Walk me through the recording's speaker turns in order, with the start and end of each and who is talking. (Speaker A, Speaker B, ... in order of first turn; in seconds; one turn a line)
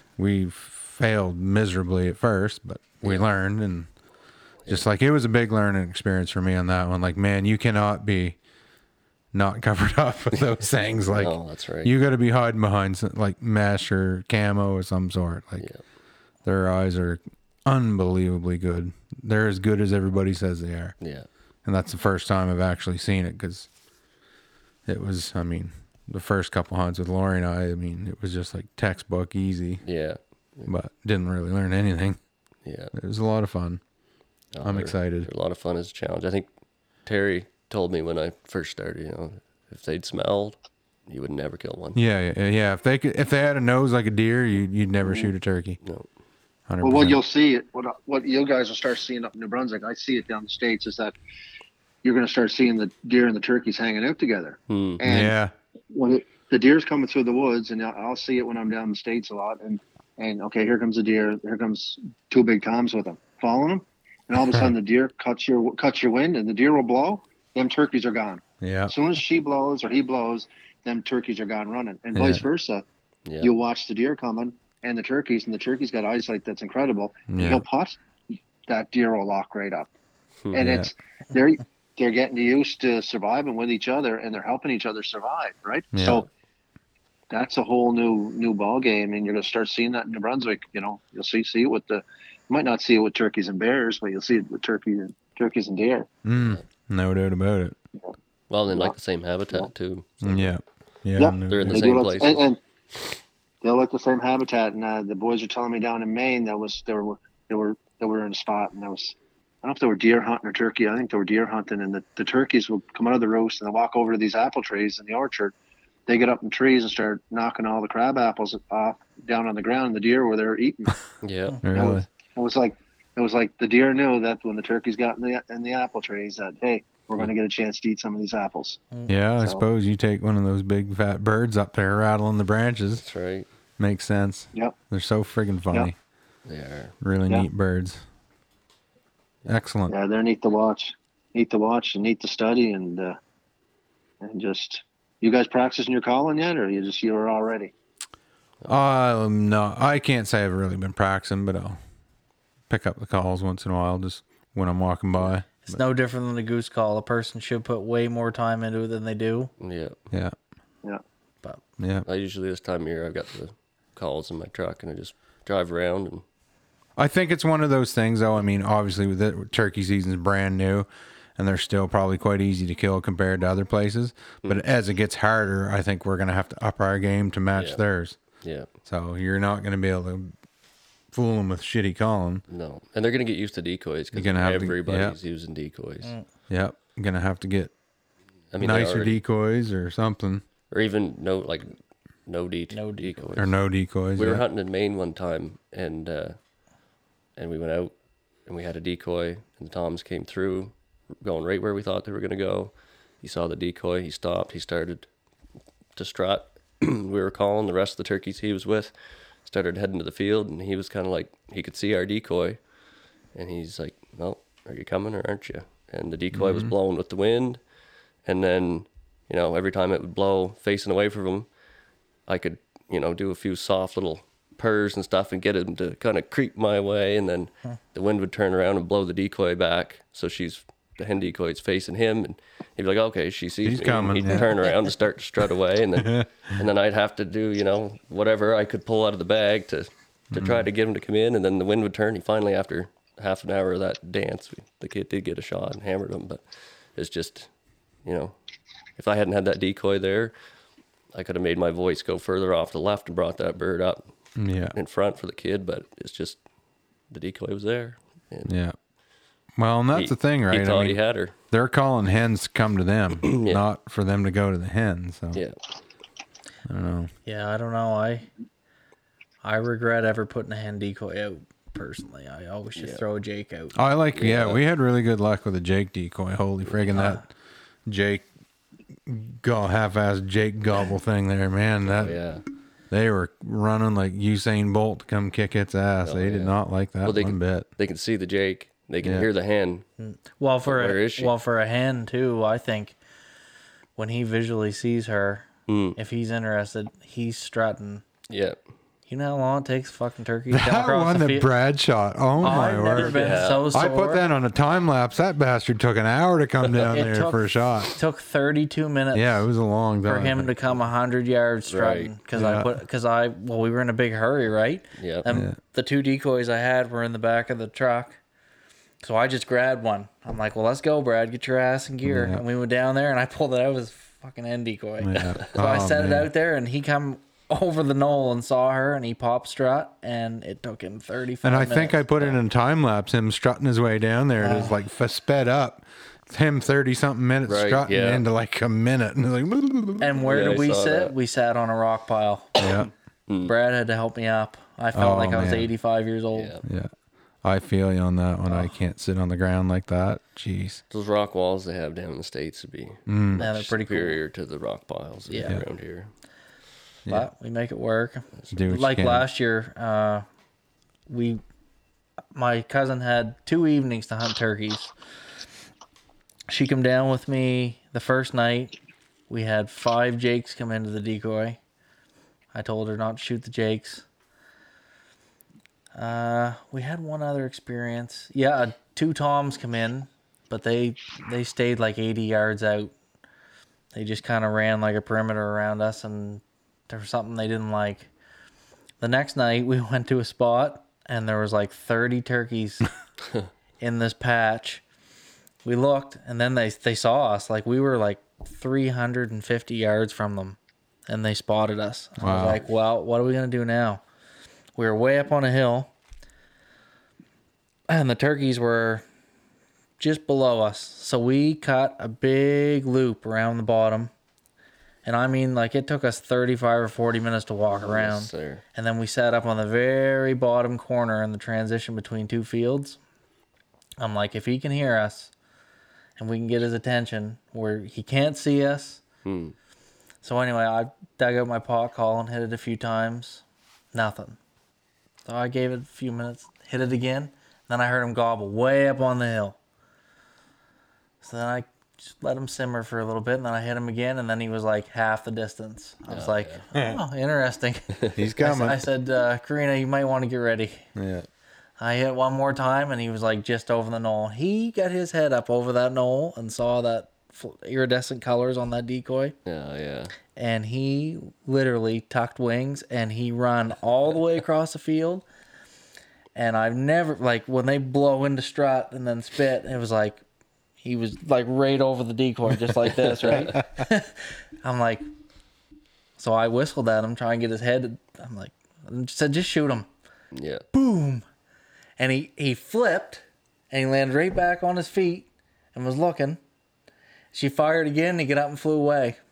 Speaker A: 0.2-3.9
Speaker B: 3.0-3.3
Speaker A: 4.7-8.4
Speaker A: 9.3-15.7
Speaker B: 11.1-11.9
Speaker A: 16.4-21.0
Speaker B: 21.0-21.3
Speaker A: 21.6-23.7
Speaker A: 24.9-29.8
Speaker B: 29.8-30.7
Speaker A: 30.7-32.2
Speaker B: 32.6-32.9
Speaker A: 32.9-33.8
Speaker B: 34.5-36.5
Speaker A: 34.6-35.3
Speaker B: 37.0-42.0
Speaker A: 42.0-45.8
Speaker B: 45.8-46.1
Speaker A: 46.7-47.2
Speaker C: 46.8-51.1
Speaker C: 52.0-55.4
Speaker B: 54.7-55.0
Speaker A: 55.0-55.5
Speaker C: 55.9-72.8
Speaker A: 68.6-68.9
Speaker A: 72.2-72.5
Speaker C: 73.4-78.0
Speaker A: 77.3-77.6
Speaker C: 78.7-79.9
Speaker C: 80.5-86.3
Speaker A: 80.5-80.9
Speaker A: 85.9-86.2
Speaker C: 87.3-96.1
Speaker A: 96.2-97.8
Speaker B: 96.3-96.6
Speaker B: 98.5-100.5
Speaker C: 98.7-99.0
Speaker A: 100.2-102.0
Speaker C: 101.2-102.6
Speaker B: 101.5-102.5
Speaker C: 103.6-115.5
Speaker C: 116.1-121.0
Speaker B: 121.2-121.6
Speaker A: 121.6-122.1
Speaker C: 121.7-128.8
Speaker A: 129.1-133.0
Speaker B: 133.0-133.5
Speaker A: 133.8-135.9
Speaker B: 136.5-136.9
Speaker A: 137.0-138.0
Speaker A: 139.5-139.9
Speaker C: 139.9-143.2
Speaker C: 144.2-147.7
Speaker A: 148.7-151.8
Speaker A: 152.7-155.8
Speaker D: 155.7-159.5
Speaker B: 159.6-160.0
Speaker A: 161.8-162.1
Speaker B: 162.1-166.2
Speaker A: 167.0-178.2
Speaker B: 177.6-177.8
Speaker B: 178.4-178.7
Speaker A: 178.9-180.3
Speaker A: 181.1-182.4
Speaker B: 182.5-186.1
Speaker A: 184.1-185.2
Speaker A: 186.5-187.7
Speaker B: 188.5-189.2
Speaker A: 188.6-190.4
Speaker B: 190.7-191.7
Speaker B: 192.3-193.5
Speaker D: 192.7-193.3
Speaker A: 193.4-194.4
Speaker B: 194.2-196.4
Speaker B: 197.4-197.9
Speaker B: 198.5-205.1
Speaker B: 206.0-208.9
Speaker B: 209.4-212.6
Speaker B: 213.3-217.6
Speaker A: 216.3-216.7
Speaker B: 218.2-221.5
Speaker B: 222.3-246.4
Speaker A: 233.6-234.5
Speaker A: 236.0-236.3
Speaker A: 240.3-240.7
Speaker B: 246.9-247.5
Speaker B: 248.1-248.3
Speaker B: 249.0-250.3
Speaker B: 251.1-254.1
Speaker A: 254.4-254.8
Speaker B: 254.7-256.4
Speaker B: 257.1-258.6
Speaker A: 258.5-258.8
Speaker A: 259.6-261.0
Speaker B: 259.9-261.3
Speaker A: 261.5-265.4
Speaker B: 263.2-263.6
Speaker A: 266.7-267.1
Speaker D: 267.3-268.3
Speaker D: 269.4-273.8
Speaker B: 272.8-273.0
Speaker A: 273.8-277.2
Speaker B: 274.2-274.6
Speaker D: 276.9-277.2
Speaker A: 277.9-278.3
Speaker A: 279.1-282.2
Speaker B: 281.8-282.4
Speaker A: 282.9-287.7
Speaker B: 286.0-289.9
Speaker A: 289.0-289.3
Speaker D: 290.0-293.0
Speaker B: 290.7-291.3
Speaker D: 294.0-298.0
Speaker B: 295.7-296.0
Speaker B: 298.3-298.6
Speaker D: 299.1-301.5
Speaker A: 300.5-307.9
Speaker D: 302.4-304.2
Speaker B: 303.0-303.7
Speaker D: 306.9-309.5
Speaker A: 309.1-310.5
Speaker D: 310.1-318.2
Speaker B: 311.7-312.1
Speaker A: 312.4-312.8
Speaker B: 315.0-315.3
Speaker A: 315.3-315.6
Speaker D: 319.0-332.4
Speaker A: 322.1-322.4
Speaker A: 325.0-326.3
Speaker A: 331.4-340.2
Speaker D: 334.4-334.8
Speaker B: 337.5-338.2
Speaker D: 340.0-342.8
Speaker B: 340.2-341.1
Speaker A: 342.6-342.9
Speaker B: 343.3-343.5
Speaker D: 343.4-346.6
Speaker A: 344.9-345.7
Speaker B: 346.3-346.6
Speaker A: 346.6-346.9
Speaker A: 347.4-350.8
Speaker B: 350.9-356.1
Speaker A: 353.1-353.4
Speaker D: 353.4-354.2
Speaker D: 355.3-355.6
Speaker D: 357.1-360.3
Speaker A: 358.5-359.3
Speaker D: 361.1-361.4
Speaker D: 362.3-364.9
Speaker D: 366.5-368.8
Speaker D: 369.3-371.6
Speaker D: 372.5-374.1
Speaker D: 375.9-382.9
Speaker D: 383.9-388.1
Speaker D: 389.0-392.9
Speaker D: 393.8-394.8
Speaker D: 395.6-404.0
Speaker A: 402.2-402.6
Speaker D: 404.8-405.9
Speaker D: 407.9-409.0
Speaker D: 410.0-414.1
Speaker D: 415.1-423.0
Speaker B: 417.7-418.6
Speaker D: 424.0-425.3
Speaker D: 426.2-429.0
Speaker B: 429.2-429.6
Speaker D: 430.2-434.4
Speaker D: 435.3-439.6
Speaker D: 441.2-450.9
Speaker B: 446.1-446.6
Speaker A: 446.7-447.0
Speaker A: 448.2-448.8
Speaker A: 450.9-451.3
Speaker D: 451.8-459.4
Speaker B: 459.5-460.1
Speaker D: 460.4-465.2
Speaker D: 466.4-470.2
Speaker D: 470.8-475.1
Speaker B: 473.2-473.5
Speaker D: 476.2-479.9
Speaker B: 480.3-480.6
Speaker D: 480.7-481.2
Speaker D: 482.0-486.4
Speaker D: 487.3-489.2